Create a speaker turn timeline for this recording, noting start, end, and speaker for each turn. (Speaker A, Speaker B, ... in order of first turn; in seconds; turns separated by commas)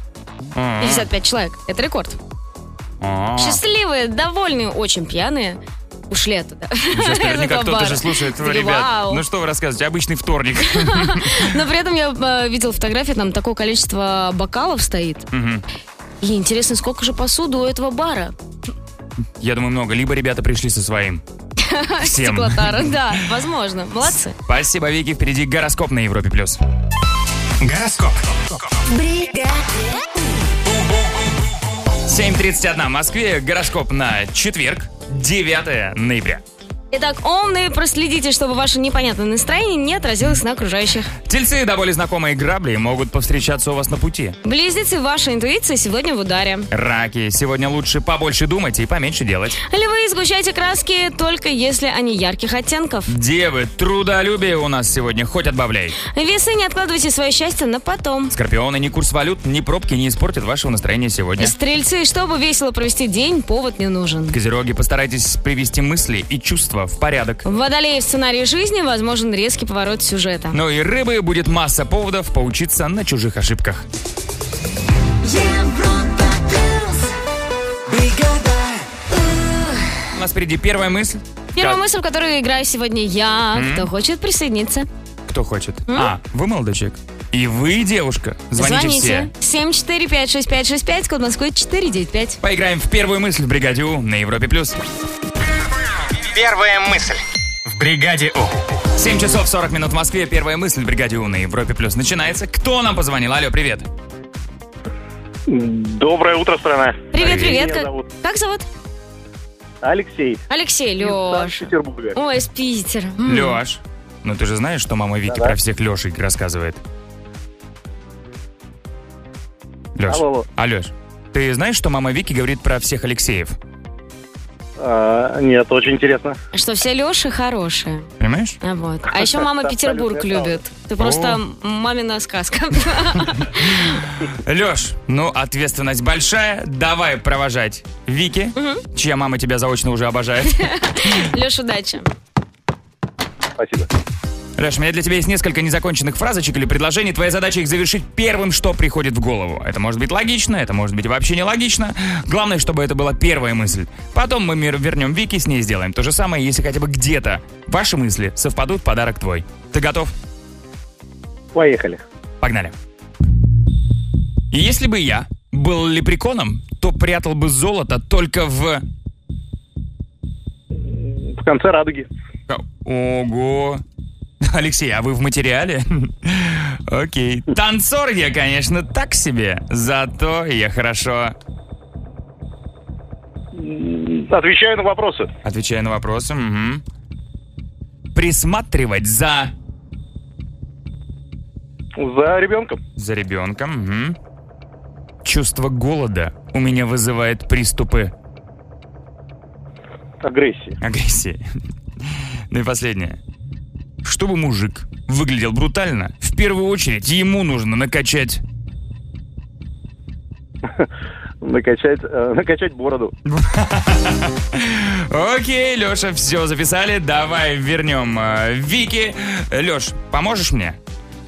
Speaker A: 0.4-1.1, Speaker B: 0.8-2.2, Speaker A: 3.0-3.6, Speaker B: 3.4-9.2, Speaker A: 6.9-11.6, Speaker B: 10.7-15.3, Speaker A: 15.3-15.6, Speaker B: 16.2-18.3, Speaker A: 19.4-21.2, Speaker B: 21.6-24.4, Speaker A: 22.0-23.2, Speaker A: 24.4-26.6, Speaker C: 27.6-28.7, Speaker D: 28.9-29.8, Speaker A: 32.0-36.4, Speaker B: 36.9-41.1, Speaker A: 41.2-44.4, Speaker B: 44.4-46.7, Speaker A: 46.7-49.6, Speaker B: 49.6-53.1, Speaker A: 53.1-56.0, Speaker B: 56.1-58.3, Speaker A: 58.3-61.5, Speaker B: 61.4-64.4, Speaker A: 64.3-67.4, Speaker B: 67.4-70.6, Speaker A: 70.5-73.9, Speaker D: 75.2-77.1, Speaker C: 77.9-78.3, Speaker D: 78.3-78.5, Speaker D: 79.2-79.7, Speaker A: 80.1-81.8, Speaker B: 81.5-84.9, Speaker A: 83.5-83.9, Speaker A: 85.3-89.3, Speaker B: 85.9-86.1, Speaker B: 88.5-92.4, Speaker A: 92.4-94.8, Speaker C: 96.2-98.8, Speaker A: 98.9-103.9, Speaker E: 105.5-108.0, Speaker B: 107.1-108.7, Speaker A: 107.2-107.6, Speaker E: 109.8-110.4, Speaker B: 110.5-113.6, Speaker E: 111.0-112.2, Speaker A: 113.2-116.8, Speaker E: 115.3-115.5, Speaker A: 120.0-123.5, Speaker E: 120.1-120.5, Speaker E: 124.8-126.4, Speaker B: 126.5-128.1, Speaker A: 128.2-128.6, Speaker B: 128.6-134.0, Speaker E: 129.1-130.6, Speaker A: 131.0-131.4, Speaker A: 134.3-141.2, Speaker B: 138.6-138.8, Speaker B: 140.6-142.1, Speaker E: 143.6-143.9, Speaker A: 144.6-160.1, Speaker E: 161.5-162.0, Speaker A: 162.4-162.8, Speaker A: 164.5-168.8, Speaker E: 170.8-172.1, Speaker A: 172.5-173.8, Speaker A: 174.4-181.3, Speaker E: 183.5-185.3, Speaker A: 185.4-186.8, Speaker A: 188.1-189.5, Speaker E: 192.0-192.8, Speaker A: 193.0-194.2, Speaker A: 195.2-198.1, Speaker E: 200.2-200.8, Speaker A: 200.8-201.4, Speaker A: 202.0-203.2, Speaker A: 204.0-208.4, Speaker E: 211.4-213.1, Speaker A: 213.2-220.8